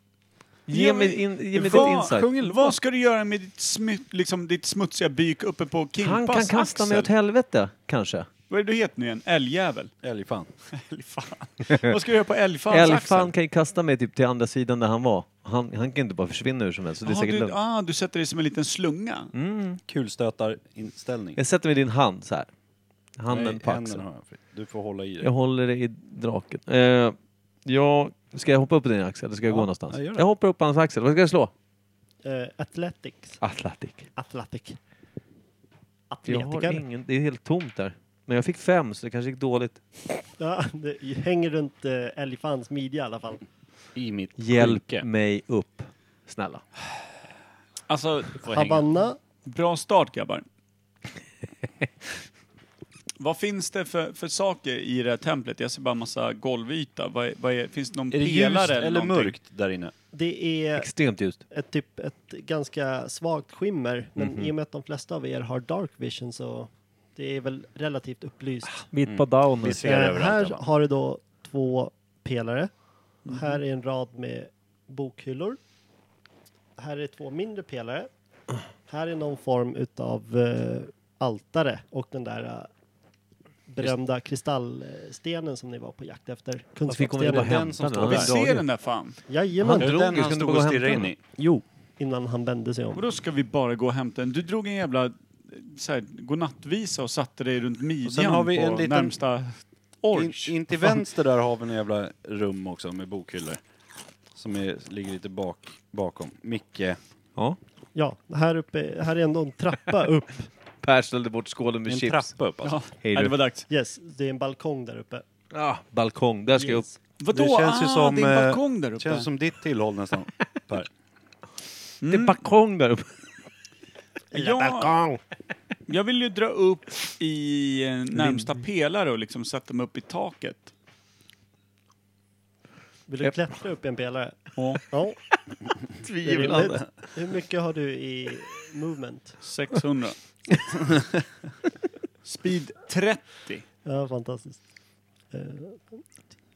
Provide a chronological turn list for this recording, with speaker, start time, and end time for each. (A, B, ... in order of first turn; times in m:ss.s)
0:00.7-0:02.3 A
0:00.7-0:07.1 B
0:01.7-0:02.4 C
0:06.0-0:08.3 A
0:08.5-0:09.9 B
0:10.0-0:10.5 C
0:10.7-0:13.3 B
0:12.7-0:17.6 A
0:17.0-0:19.3 B
0:19.3-0:19.8 A
0:19.9-0:21.4 C
0:21.4-0:22.5 A
0:23.2-0:24.0 A
0:23.3-0:25.3 C
0:25.2-0:31.5 A
0:29.5-0:30.2 C
0:32.2-0:33.4 D
0:33.4-0:34.1 A
0:34.2-0:34.8 D
0:36.1-0:36.8 D
0:36.2-0:39.8 A
0:40.4-0:43.4 D
0:44.0-0:45.1 C
0:44.4-0:46.6 A
0:47.9-0:48.4 B
0:48.4-0:48.8 C
0:48.4-0:49.2 D
0:49.4-0:50.4 B
0:53.2-0:59.3 B
0:58.1-0:59.9 C
1:00.1-1:00.9 D
1:00.8-1:01.4 A
1:01.5-1:08.8 D
1:04.2-1:04.5 A
1:08.6-1:10.0 A
1:09.0-1:10.6 C
1:09.8-1:12.7 D
1:13.2-1:15.6 D
1:16.8-1:18.1 D
1:18.9-1:22.7 D
1:23.7-1:27.6 D
1:26.9-1:28.6 A
1:27.3-1:28.3 C
1:28.0-1:29.2 B
1:29.3-1:29.9 D
1:29.6-1:31.6 A
1:29.8-1:31.2 C
1:32.0-1:33.0 D
1:32.9-1:41.0 B
1:38.0-1:39.2 C
1:40.1-1:43.6 C
1:44.3-1:47.0 C
1:47.9-1:50.5 D
1:50.8-1:52.3 A
1:51.9-1:52.8 C
1:52.6-1:53.6 B
1:53.0-1:53.4 A
1:53.7-1:55.2 D
1:55.5-1:56.8 A
1:56.5-1:57.0 D
1:57.2-1:59.3 B
1:57.3-2:00.9 C
2:02.0-2:02.4 B
2:02.0-2:03.1 A
2:04.3-2:04.9 B
2:04.3-2:05.2 D
2:05.9-2:10.7 B
2:08.1-2:08.5 A
2:13.1-2:15.2 D
2:14.6-2:14.8 B
2:15.9-2:16.8 A
2:16.2-2:19.4 D
2:19.4-2:20.2 B
2:22.2-2:23.6 B
2:23.8-2:24.6 D
2:25.3-2:26.0 D